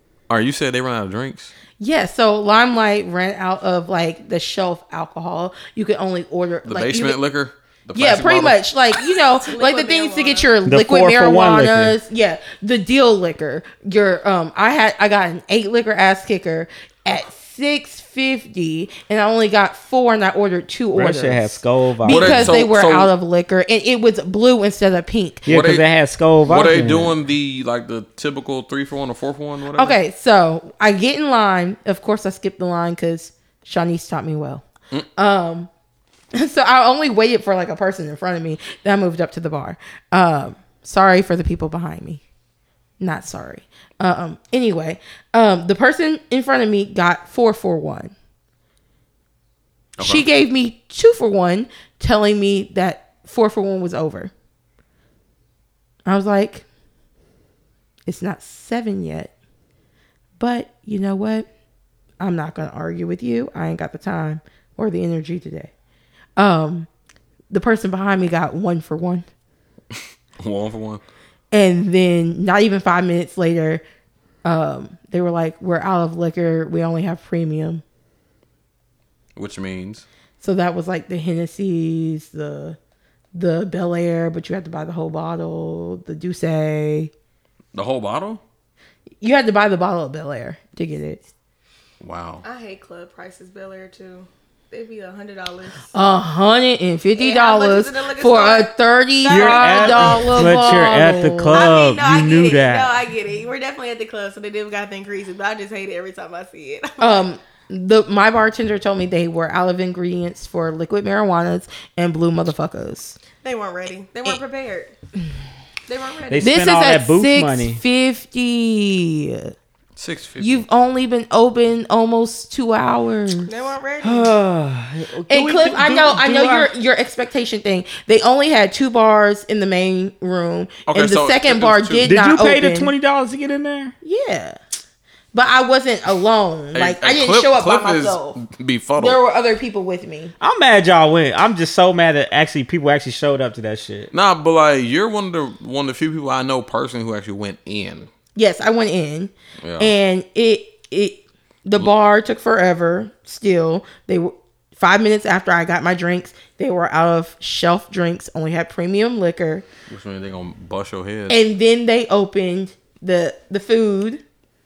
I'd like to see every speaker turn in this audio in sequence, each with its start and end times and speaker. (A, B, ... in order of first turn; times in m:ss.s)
0:00.3-0:01.5 A
0:01.8-0:07.2 B
0:06.6-0:08.6 A
0:07.9-0:25.5 B
0:09.3-0:10.5 C
0:10.6-0:12.0 D
0:20.9-0:22.5 D
0:22.1-0:23.1 A
0:25.5-0:27.2 D
0:25.5-0:25.9 A
0:26.5-0:30.0 A
0:29.8-0:34.6 B
0:35.2-0:35.7 B
0:36.3-0:42.2 B
0:43.0-0:48.1 B
0:50.0-0:50.3 A
0:50.0-0:54.3 B
0:56.1-0:56.6 B
0:58.1-0:59.3 B
1:00.4-1:01.5 B
1:02.2-1:05.7 B
1:06.4-1:06.9 B
1:07.5-1:09.3 B
1:10.4-1:11.0 A
1:11.5-1:13.8 B
1:14.4-1:17.8 B
1:19.4-1:20.0 A
1:20.4-1:22.8 B
1:23.4-1:27.1 B
1:27.7-1:28.4 A
1:29.2-1:31.2 B
1:32.0-1:32.4 A
1:32.4-1:35.9 C
1:35.9-1:41.6 B
1:37.2-1:47.3 C
1:39.3-1:43.0 D
1:47.0-1:53.2 B
1:53.4-1:54.9 C
1:55.9-1:56.6 C
1:56.3-1:57.8 D
1:56.4-1:59.5 B
2:00.0-2:00.6 A
2:00.4-2:03.5 B
2:03.4-2:04.3 C
2:04.0-2:06.7 D
2:05.3-2:12.9 B
2:10.9-2:12.1 A
2:12.0-2:14.0 D
2:14.0-2:14.6 B
2:15.3-2:18.4 B
2:16.8-2:19.2 A
2:19.0-2:20.3 B
2:20.4-2:24.1 D
2:24.1-2:28.1 A
2:28.4-2:39.6 B
2:29.6-2:29.9 A
2:39.9-2:41.4 A
2:41.3-2:44.2 B